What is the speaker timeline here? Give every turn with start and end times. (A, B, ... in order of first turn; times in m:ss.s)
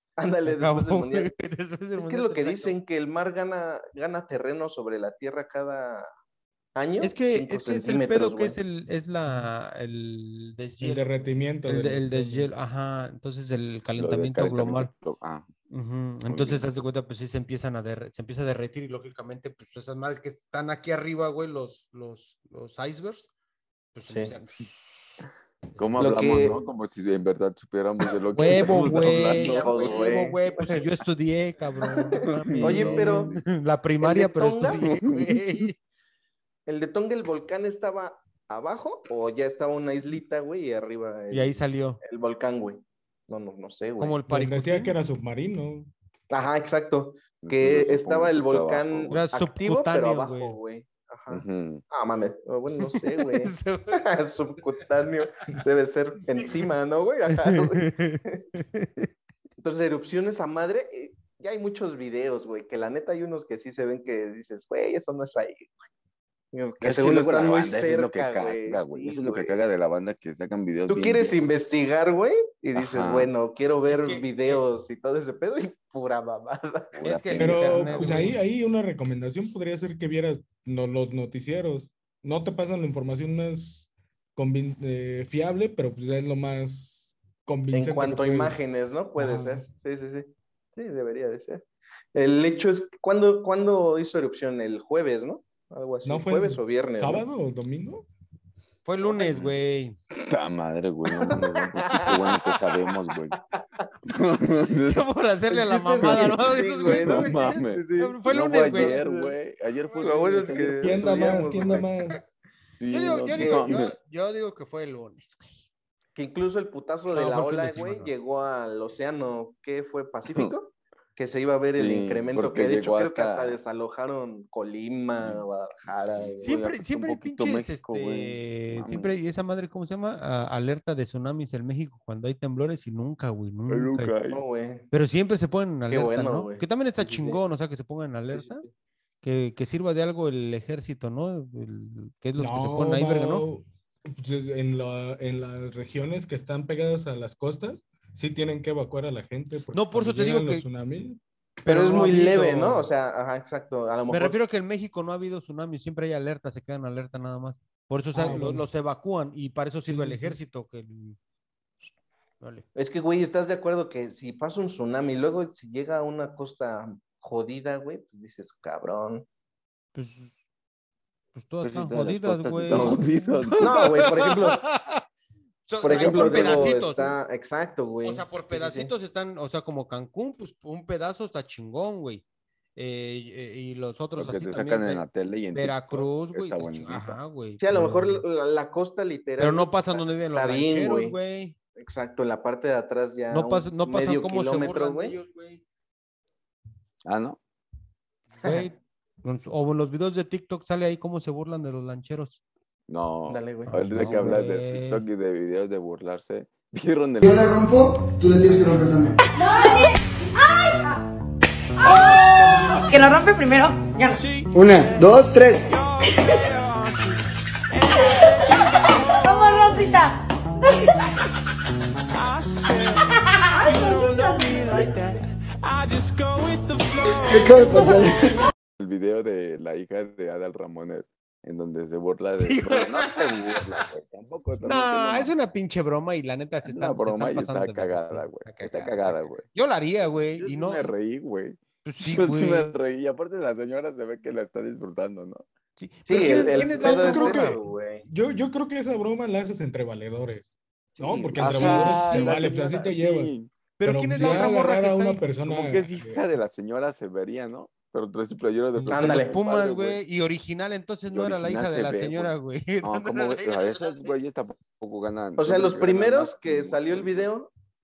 0:00.2-0:01.3 A
0:00.5-0:02.8 B
0:02.0-0:06.1 A
0:06.8-0:08.6 A
0:07.0-0:14.9 B
0:10.8-0:12.5 C
0:14.0-0:15.5 D
0:15.7-0:23.3 B
0:16.3-0:16.7 D
0:24.0-0:25.3 B
0:24.1-0:24.3 A
0:25.8-0:30.2 D
0:26.0-0:26.6 A
0:28.3-0:35.8 B
0:28.5-0:30.9 A
0:31.8-0:33.4 A
0:32.3-0:33.4 D
0:34.0-0:34.8 A
0:34.7-0:35.6 D
0:36.7-0:44.2 A
0:41.3-0:42.0 B
0:44.0-0:45.0 B
0:44.3-0:45.9 C
0:46.3-0:58.4 A
0:47.4-0:49.2 D
0:49.1-0:50.6 B
0:51.3-0:51.8 D
0:52.8-0:54.2 B
0:56.3-0:56.7 B
0:57.3-0:59.1 B
0:59.6-1:05.8 A
1:06.5-1:09.6 A
1:06.8-1:11.4 D
1:10.9-1:17.0 A
1:12.8-1:13.3 D
1:13.9-1:14.6 B
1:17.0-1:18.1 D
1:17.0-1:18.4 B
1:17.4-1:29.6 C
1:27.7-1:31.6 A
1:32.2-1:37.3 A
1:36.0-1:38.1 C
1:38.8-1:40.0 B
1:39.2-1:39.6 D
1:40.1-1:43.4 D
1:41.2-1:42.1 A
1:44.1-1:45.1 D
1:44.8-1:49.0 B
1:45.5-1:49.4 A
1:46.0-1:51.5 D
1:50.0-1:51.9 A
1:50.8-1:52.2 C
1:52.8-1:53.9 D
1:52.9-1:55.6 B
1:53.4-1:53.8 A
1:56.2-2:06.5 A
1:57.1-1:58.1 B
2:01.7-2:03.6 D
2:05.2-2:05.5 D
2:06.2-2:09.1 D
2:06.4-2:14.1 B
2:13.7-2:14.4 D
2:14.3-2:14.9 A
2:14.9-2:18.6 B
2:15.9-2:17.4 A
2:18.3-2:18.7 A
2:19.2-2:23.5 B
2:22.4-2:31.2 C
2:29.7-2:30.7 B
2:31.6-2:32.9 B
2:31.7-2:34.4 A
2:34.1-2:41.2 B
2:38.2-2:38.5 A
2:38.2-2:38.6 C
2:39.9-2:40.4 C
2:42.4-2:42.7 B
2:42.8-2:49.3 A
2:50.0-2:50.3 B
2:51.4-2:55.0 B
2:51.6-2:53.9 D
2:52.7-2:53.0 A
2:53.6-2:54.6 A
2:55.7-2:57.2 B
2:55.8-2:58.9 A
2:55.8-2:56.8 D
2:58.0-3:02.2 B
3:02.8-3:08.2 B
3:04.2-3:07.2 D
3:07.6-3:11.2 A
3:09.4-3:11.6 B
3:11.8-3:15.2 A
3:13.3-3:15.6 B
3:17.0-3:17.4 D
3:18.4-3:22.4 B
3:22.9-3:27.5 D
3:23.3-3:24.3 A
3:23.7-3:25.0 B
3:27.2-3:29.2 E
3:29.4-3:29.9 F
3:31.8-3:34.2 F
3:34.5-3:35.7 E
3:39.2-3:40.2 F
3:43.5-3:44.9 F
3:47.2-3:48.4 E
3:48.8-3:55.3 D
3:52.4-3:53.8 B
3:54.6-4:00.9 B
3:56.6-3:59.4 D
4:00.4-4:05.4 D
4:01.8-4:02.7 B
4:05.8-4:07.6 B
4:06.1-4:08.1 A
4:06.7-4:07.6 C
4:08.1-4:13.3 C
4:11.0-4:11.7 A
4:11.4-4:13.5 D
4:11.5-4:12.5 B
4:13.8-4:15.3 B
4:13.8-4:16.2 C
4:15.4-4:20.0 D
4:18.9-4:19.4 A
4:19.0-4:24.2 B
4:21.1-4:27.3 D
4:25.4-4:27.5 A